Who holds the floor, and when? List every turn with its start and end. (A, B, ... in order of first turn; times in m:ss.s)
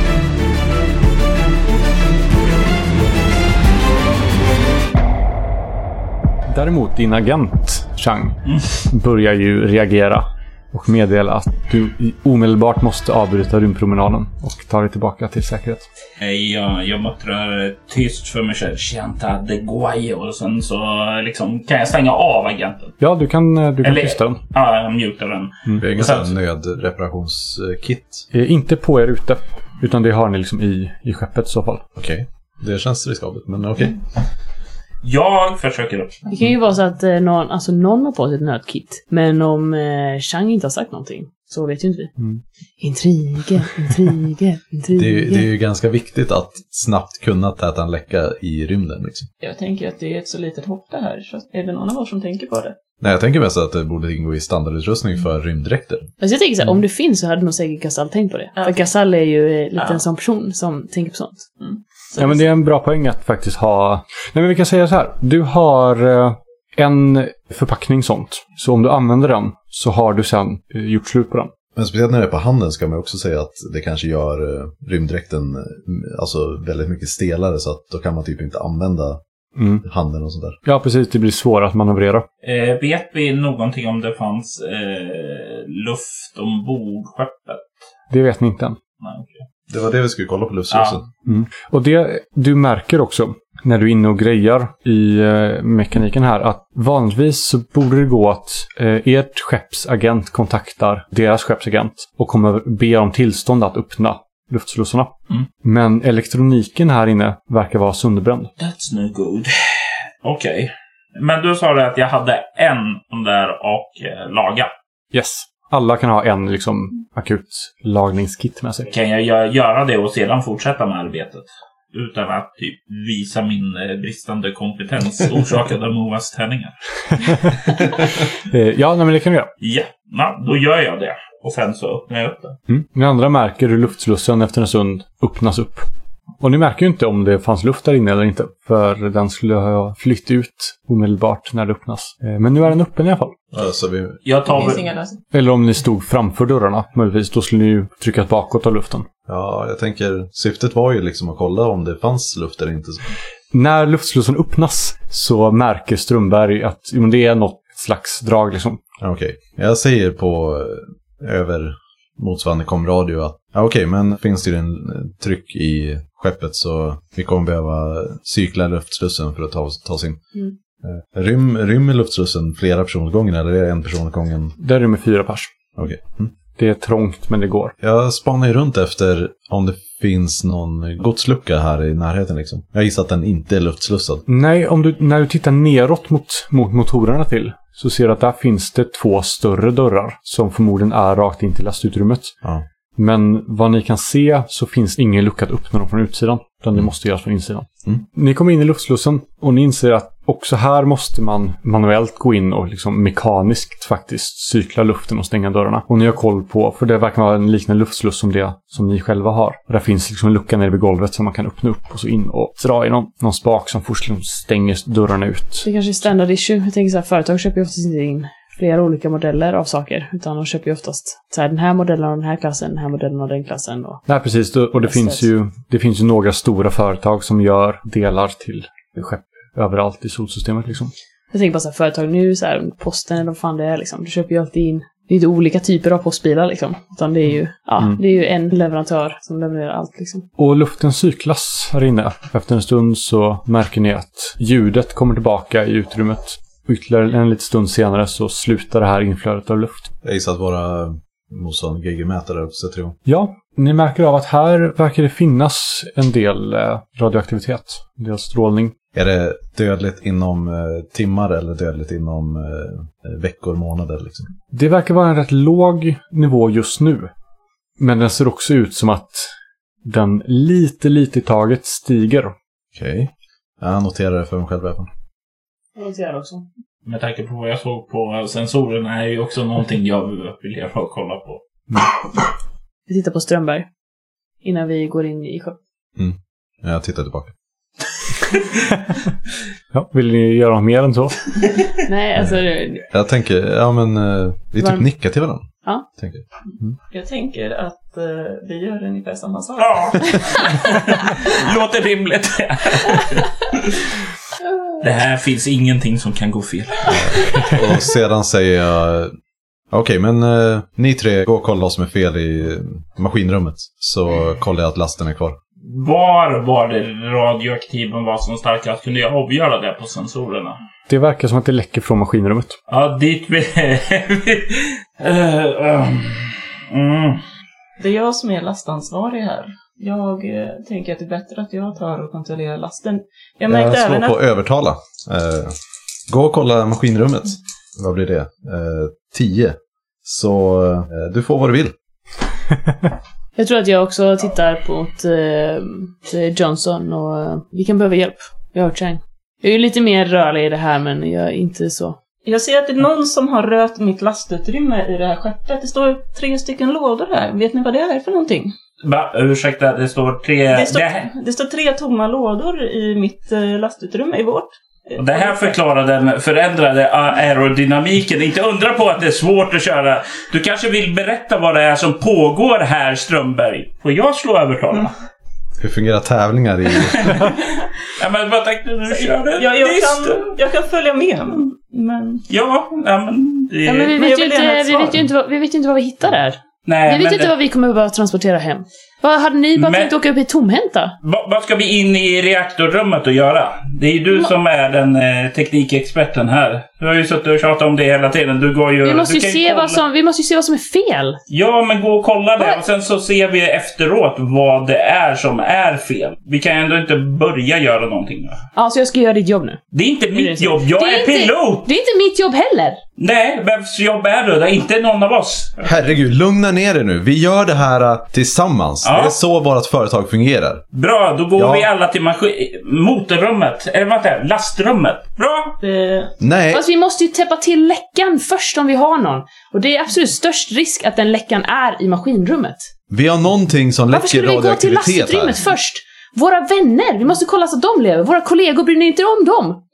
0:06.5-0:15.9 A
0:16.2-0:23.0 B
0:23.0-0:24.4 A
0:23.8-0:26.3 B
0:25.8-0:28.2 C
0:28.3-0:31.8 A
0:32.0-0:34.0 C
0:35.0-0:36.2 B
0:36.3-0:42.1 D
0:42.8-0:45.5 D
0:45.0-0:49.3 C
0:49.4-0:52.8 E
0:53.0-0:56.1 C
0:56.2-1:01.5 D
1:02.2-1:11.5 A
1:11.8-1:19.2 C
1:19.6-1:19.8 A
1:19.8-1:20.6 C
1:20.6-1:22.3 A
1:22.4-1:27.7 B
1:28.1-1:28.8 A
1:29.0-1:29.4 B
1:29.7-1:31.0 C
1:30.7-1:31.0 B
1:31.3-1:45.1 A
1:45.6-1:48.5 A
1:48.6-1:54.7 B
1:55.1-1:58.9 A
1:58.9-2:07.5 B
2:07.2-2:09.5 A
2:09.6-2:12.6 B
2:12.7-2:15.9 A
2:16.4-2:23.4 A
2:23.5-2:24.2 C
2:24.2-2:24.9 B
2:24.5-2:25.2 E
2:25.3-2:29.1 A
2:29.3-2:33.1 C
2:33.5-2:38.8 A
2:39.0-2:50.2 C
2:50.8-2:54.6 C
2:54.6-2:55.5 A
2:55.8-2:56.3 C
2:56.6-2:57.8 A
2:57.8-3:04.2 C
3:04.3-3:12.4 A
3:13.0-3:35.7 A
3:35.6-3:44.0 D
3:44.1-3:50.9 A
3:44.8-3:45.2 D
3:51.3-4:00.3 D
4:00.4-4:09.9 A
4:10.0-4:13.0 C
4:13.1-4:18.8 A
4:18.9-4:24.3 C
4:24.5-4:27.1 A
4:27.8-4:29.3 A
4:29.8-4:32.3 A
4:32.8-4:34.9 C
4:35.8-4:36.5 D
4:36.8-4:41.4 B
4:42.9-4:43.7 D
4:44.4-4:45.6 D
4:46.0-4:47.3 C
4:49.7-4:51.3 A
4:51.8-4:52.9 D
4:52.9-4:56.2 C
4:56.9-5:00.6 E
4:59.6-5:03.9 B
5:04.8-5:07.5 B
5:06.9-5:09.1 C
5:09.7-5:15.4 C
5:15.6-5:20.6 B
5:20.9-5:22.6 A
5:22.7-5:27.2 B
5:27.8-5:34.2 E
5:33.5-5:35.6 C
5:36.1-5:41.8 C
5:43.4-5:52.0 D
5:52.2-5:58.5 E
5:58.8-6:01.1 B
6:00.5-6:05.6 E
6:05.0-6:14.9 B
6:15.6-6:17.3 C
6:17.0-6:20.3 B
6:19.4-6:22.2 E
6:22.3-6:24.0 B
6:23.7-6:31.0 D
6:23.9-6:25.0 E
6:26.7-6:27.3 B
6:29.6-6:29.9 B
6:31.0-6:39.8 B
6:38.8-6:41.2 D
6:41.3-6:48.4 B
6:48.6-6:49.6 D
6:49.7-6:51.7 B
6:50.1-6:52.8 D
6:53.0-6:55.7 B
6:55.6-7:00.6 C
6:58.8-6:59.1 B
7:00.7-7:05.6 B
7:01.4-7:01.7 C
7:05.6-7:06.1 E
7:06.2-7:06.6 C
7:06.5-7:12.7 D
7:12.9-7:15.4 C
7:13.9-7:19.6 D